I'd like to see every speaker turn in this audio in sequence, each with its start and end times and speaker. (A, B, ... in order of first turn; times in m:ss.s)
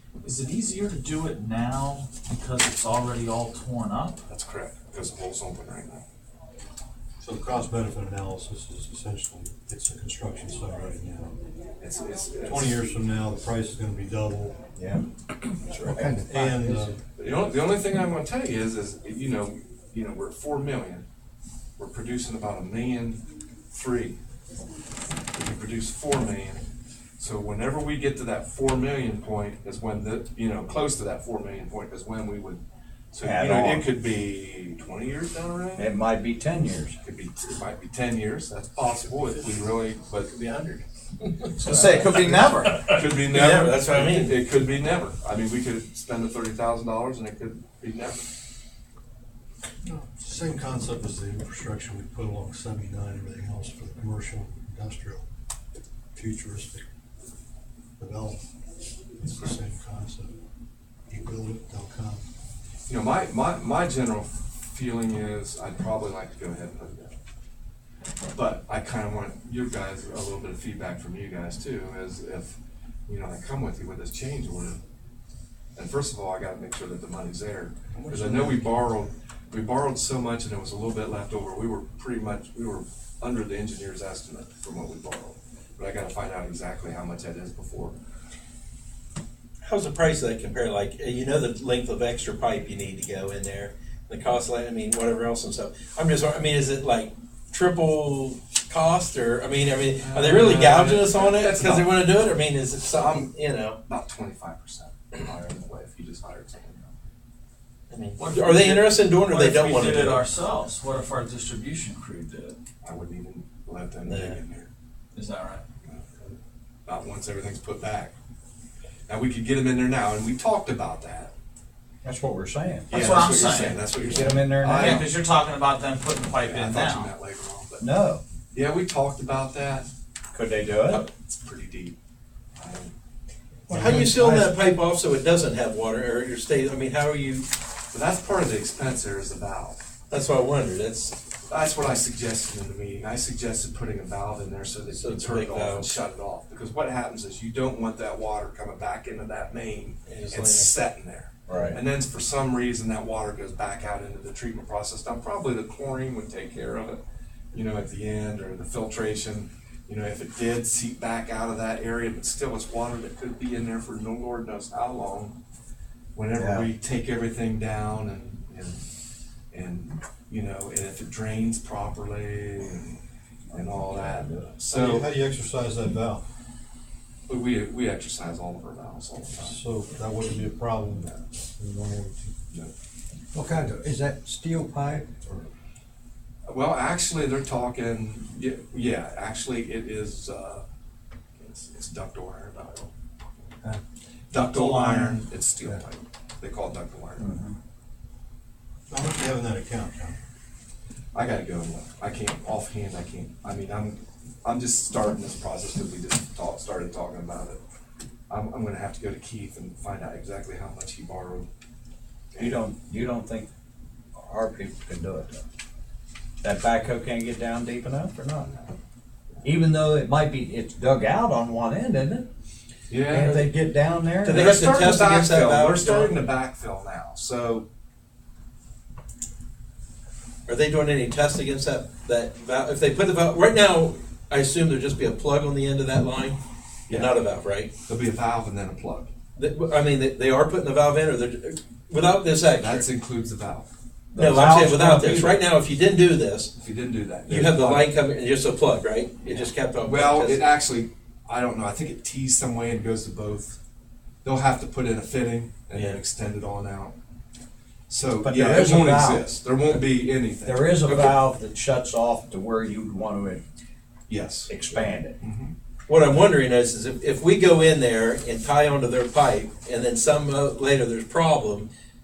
0:00.2-0:04.2 A
0:04.2-0:06.0 B
0:07.2-0:11.4 C
0:11.8-0:12.8 B
0:12.4-0:14.6 C
0:14.8-0:15.0 D
0:15.7-0:16.0 D
0:15.8-0:17.0 C
0:17.2-0:21.0 B
0:21.8-0:24.2 B
0:25.3-0:26.6 B
0:27.2-0:35.9 B
0:33.2-0:33.9 D
0:35.8-0:37.0 D
0:37.0-0:40.8 B
0:41.2-0:41.5 E
0:41.6-0:42.9 D
0:41.6-0:42.8 A
0:42.8-0:48.2 B
0:43.0-0:44.4 E
0:49.8-0:55.2 C
0:56.1-0:56.8 C
0:58.0-0:58.4 C
0:59.2-1:00.3 C
0:59.3-0:59.5 B
1:01.1-1:02.2 C
1:02.9-1:07.2 B
1:08.3-1:14.8 B
1:15.8-1:28.0 B
1:17.9-1:18.6 C
1:29.6-1:43.8 E
1:40.0-1:42.0 B
1:42.9-1:43.3 B
1:43.8-1:46.9 B
1:47.9-1:50.2 E
1:48.2-1:52.6 A
1:52.8-1:54.7 B
1:54.0-1:54.4 E
1:55.1-1:55.6 A
1:55.9-1:56.3 B
1:56.8-1:58.1 B
1:59.1-2:01.3 B
2:02.0-2:03.2 D
2:02.9-2:03.8 A
2:02.9-2:05.1 B
2:04.0-2:05.1 D
2:04.7-2:07.1 A
2:06.4-2:07.8 B
2:07.8-2:08.2 D
2:08.5-2:09.9 B
2:10.3-2:11.0 D
2:10.9-2:12.0 B
2:12.6-2:12.9 B
2:13.7-2:17.5 E
2:13.8-2:14.1 D
2:17.9-2:19.8 B
2:20.1-2:21.2 E
2:21.5-2:37.0 B
2:24.9-2:25.9 E
2:30.0-2:30.7 E
2:31.5-2:31.8 D
2:37.5-2:45.3 B
2:46.1-2:48.8 B
2:46.3-2:46.7 D
2:49.5-2:52.9 B
2:53.5-2:55.1 B
2:54.7-2:56.2 C
2:57.3-2:59.6 B
2:59.4-3:02.3 C
3:03.3-3:05.2 D
3:06.5-3:10.6 B
3:11.4-3:12.9 B
3:14.3-3:17.4 B
3:14.6-3:15.0 C
3:17.2-3:17.5 D
3:18.9-3:20.2 C
3:21.1-3:27.6 B
3:28.3-3:31.5 B
3:32.3-3:32.6 B
3:32.3-3:33.5 D
3:34.1-3:35.4 D
3:36.4-3:38.5 D
3:39.4-3:42.3 D
3:42.9-3:43.5 B
3:43.0-3:44.6 D
3:44.2-3:46.2 E
3:44.3-3:47.6 B
3:50.4-3:57.7 E
3:56.9-3:57.2 B
3:57.8-3:59.1 B
3:59.4-4:02.9 E
4:02.6-4:03.7 B
4:04.1-4:05.4 D
4:04.1-4:06.5 E
4:06.5-4:07.9 B
4:07.3-4:10.5 E
4:09.2-4:13.6 B
4:14.2-4:16.9 B
4:15.7-4:16.0 E
4:17.9-4:21.2 B
4:18.2-4:19.3 D
4:20.4-4:23.4 D
4:24.1-4:24.6 B
4:24.5-4:25.2 D
4:25.2-4:25.5 B
4:25.9-4:31.7 E